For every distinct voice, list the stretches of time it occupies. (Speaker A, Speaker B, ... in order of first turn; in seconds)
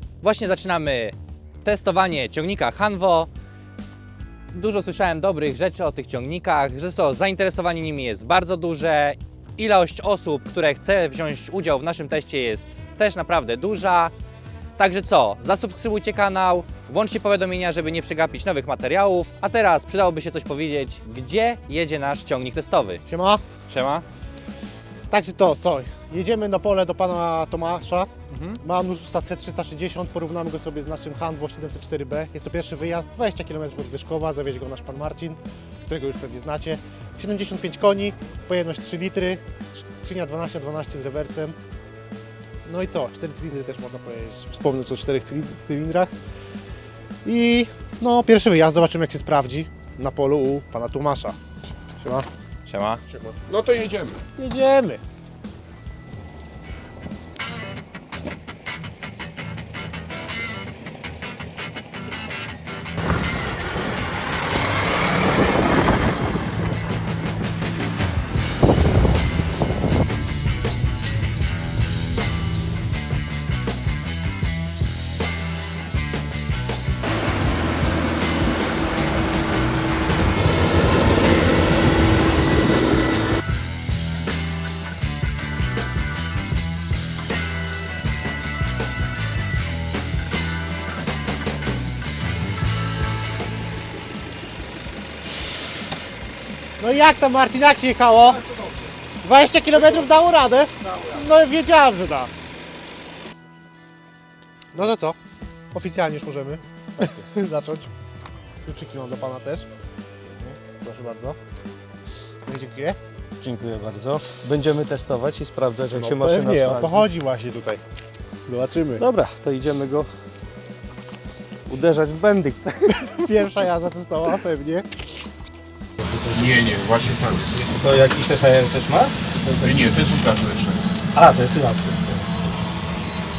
Speaker A: 0.2-3.3, 4.5-14.1, 14.8-23.0, 23.7-24.0, 28.3-28.6, 52.7-53.0
Speaker B: 23.1-23.4, 25.1-28.1, 28.6-41.5, 42.6-46.1, 47.2-51.4, 52.0-52.3, 54.4-55.0, 96.8-98.5, 99.2-102.3, 104.7-105.2, 105.7-107.9, 108.6-109.7, 110.4-111.4, 112.5-113.0, 116.0-117.8, 118.5-119.0, 123.2-124.9
Speaker C: 53.1-54.2, 126.3-127.8, 129.6-130.9
Speaker D: 107.0-107.3, 113.4-117.1, 119.0-120.1, 121.7-123.5, 127.7-129.8, 131.1-132.4